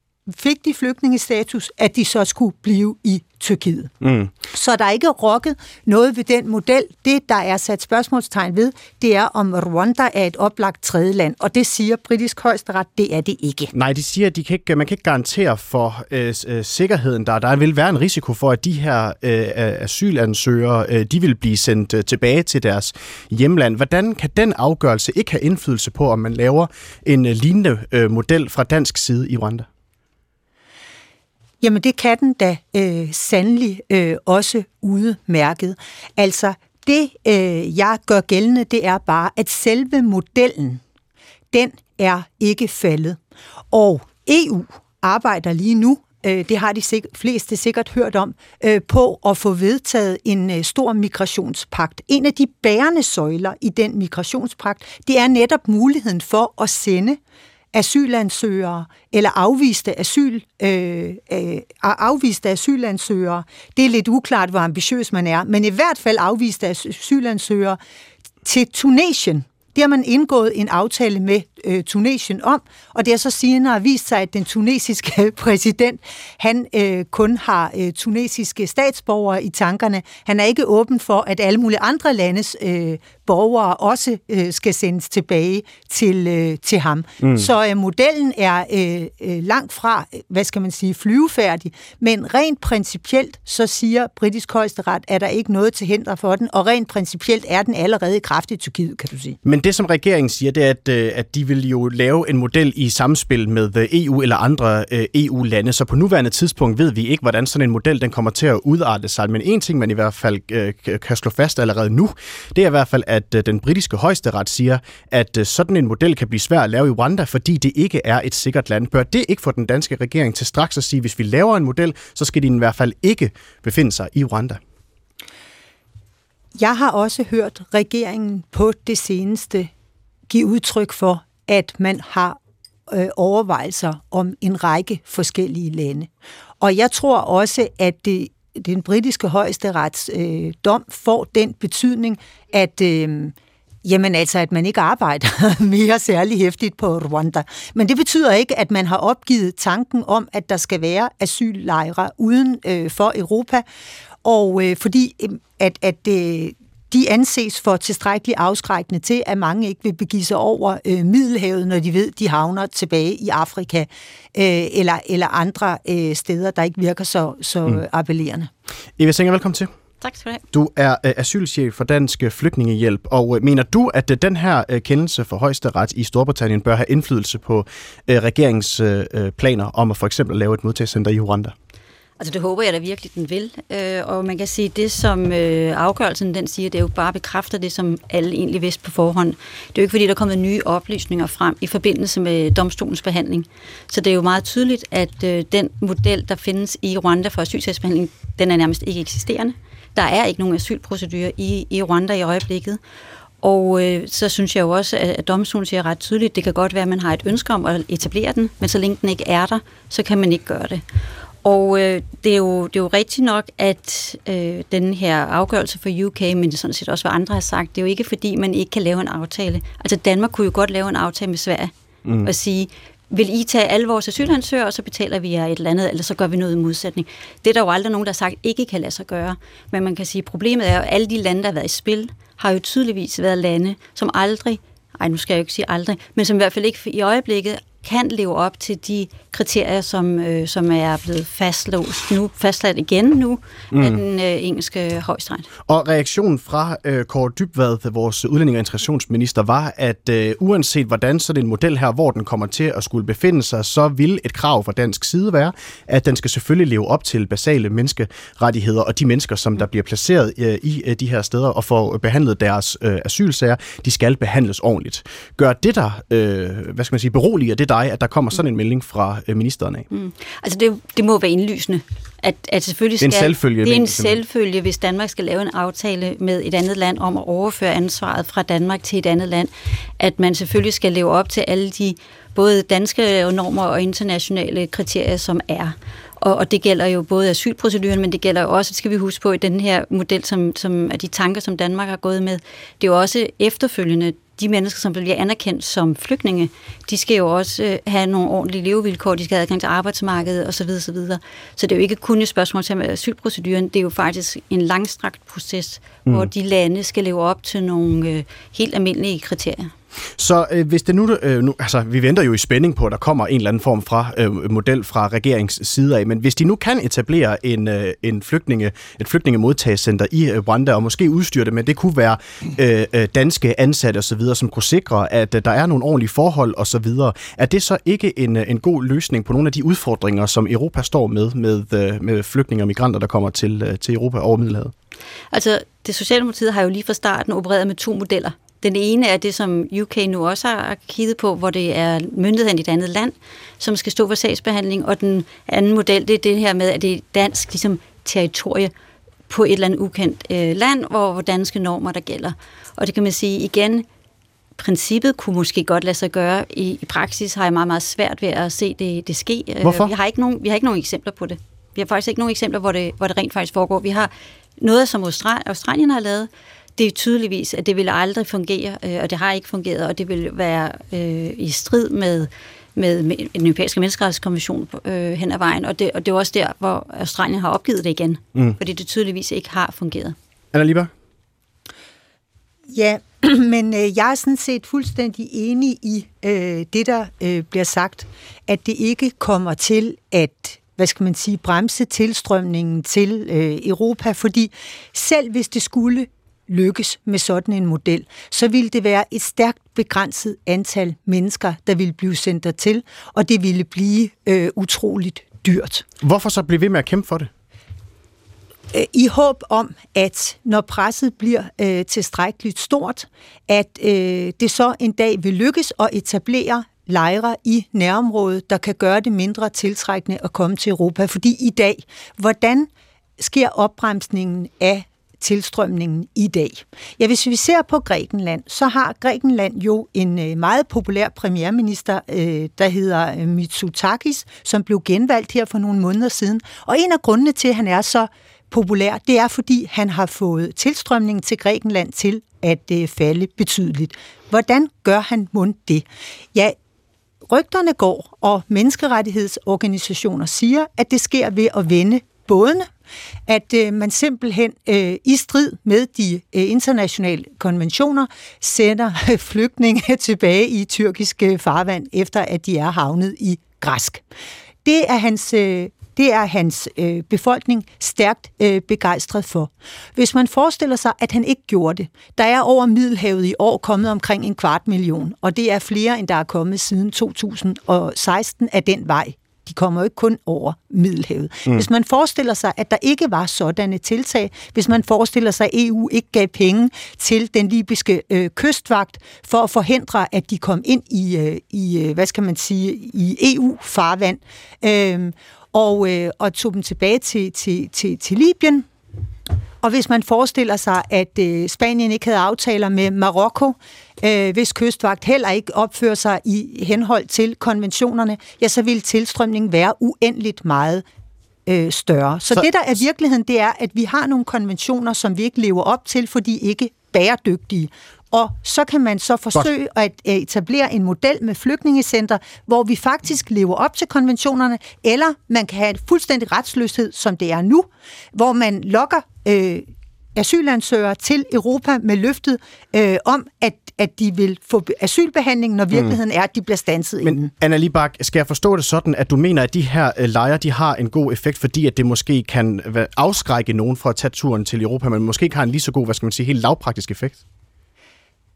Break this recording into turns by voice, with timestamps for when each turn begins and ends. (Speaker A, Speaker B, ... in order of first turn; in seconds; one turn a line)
Speaker A: 0.3-3.9
Speaker B: 4.0-4.3
Speaker A: 4.5-13.7
Speaker B: 13.7-29.7
Speaker A: 31.6-40.8
Speaker A: 41.5-43.2
Speaker A: 43.7-57.2
Speaker A: 57.7-67.8
Speaker A: 68.4-99.4
Speaker B: 87.2-87.5
Speaker B: 99.4-124.6
Speaker A: 126.5-129.7
Speaker A: 130.3-132.4
Speaker A: 132.9-153.6
Speaker A: 154.2-168.5
Speaker B: 169.0-169.7
Speaker C: 170.0-170.4
Speaker B: 170.5-181.5
Speaker C: 182.2-202.8
Speaker C: 203.4-210.8
Speaker C: 211.4-221.7
Speaker B: 222.1-222.3
Speaker C: 222.2-245.5
Speaker B: 243.7-244.0
Speaker B: 245.7-269.9
Speaker C: 269.9-309.7
Speaker B: 273.0-274.2
Speaker B: 310.2-334.7
Speaker C: 335.3-348.7
Speaker C: 349.3-353.9
Speaker C: 354.6-380.1
Speaker B: 359.6-359.9
Speaker B: 380.5-380.9
Speaker A: 382.7-405.8
Speaker B: 406.0-407.3
Speaker A: 408.7-446.5
Speaker A: 447.3-452.7
Speaker A: 453.3-464.0
Speaker A: 464.6-498.6
Speaker A: 499.6-510.8
Speaker A: 511.4-537.3
Speaker B: 535.7-536.0
Speaker B: 537.0-547.2